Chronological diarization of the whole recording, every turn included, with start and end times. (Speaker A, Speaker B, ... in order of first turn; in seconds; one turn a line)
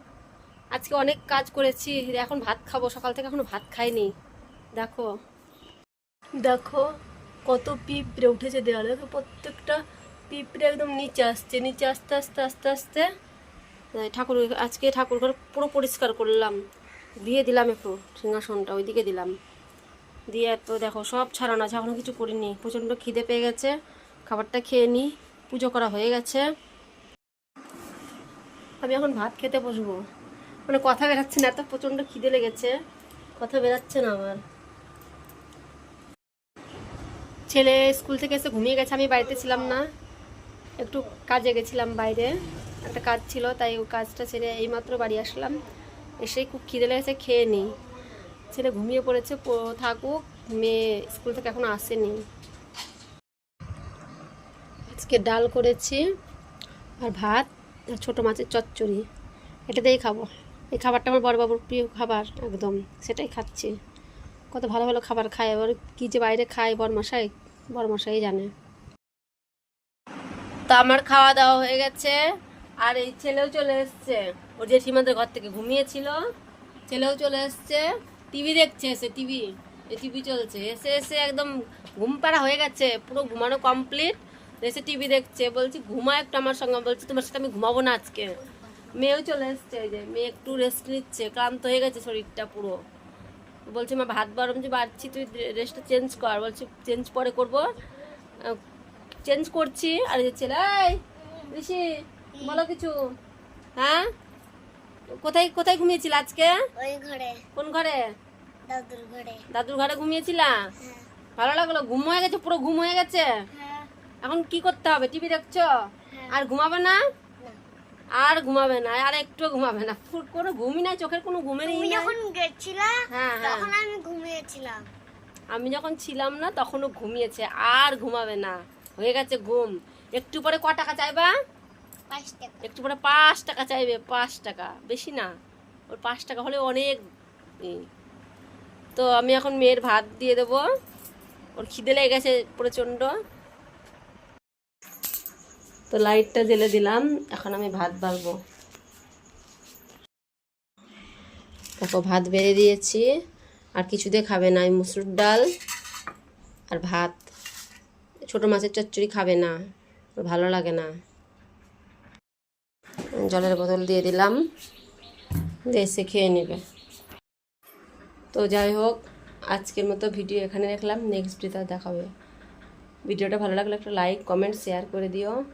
Speaker A: 0.7-4.1
Speaker A: 4.8-5.1
Speaker A: 6.4-6.8
Speaker A: 7.5-13.1
Speaker A: 14.0-16.6
Speaker A: 17.2-19.3
Speaker A: 20.3-23.7
Speaker A: 24.3-26.5
Speaker A: 28.8-30.0
Speaker A: 30.7-32.7
Speaker A: 33.4-34.4
Speaker A: 37.5-39.8
Speaker A: 40.8-45.5
Speaker A: 46.2-47.7
Speaker A: 48.5-52.2
Speaker A: 54.9-56.0
Speaker A: 57.0-59.0
Speaker A: 59.7-63.7
Speaker A: 64.5-68.5
Speaker A: 70.7-72.2
Speaker A: 72.8-76.2
Speaker A: 76.9-88.3
Speaker A: 88.9-92.8
Speaker A: 93.7-97.6
Speaker A: 99.2-101.0
Speaker A: 101.5-101.8
Speaker B: 102.3-102.6
Speaker A: 102.4-102.9
Speaker A: 103.8-104.1
Speaker A: 105.2-106.5
Speaker B: 106.8-107.4
Speaker A: 107.5-108.0
Speaker B: 108.7-109.4
Speaker A: 109.5-110.5
Speaker A: 111.4-113.2
Speaker B: 113.5-113.9
Speaker A: 114.2-115.7
Speaker A: 116.3-117.0
Speaker A: 118.2-122.1
Speaker B: 121.7-124.9
Speaker A: 123.1-123.7
Speaker A: 125.5-131.3
Speaker B: 132.1-132.6
Speaker A: 132.6-135.3
Speaker A: 135.9-137.0
Speaker A: 138.9-140.6
Speaker A: 141.6-143.1
Speaker A: 145.9-148.3
Speaker A: 151.8-153.1
Speaker A: 153.8-155.4
Speaker A: 156.7-157.2
Speaker A: 158.3-159.5
Speaker A: 160.2-160.9
Speaker A: 163.2-164.3
Speaker A: 165.7-166.6
Speaker A: 168.3-169.0
Speaker A: 169.5-172.1
Speaker A: 173.1-175.4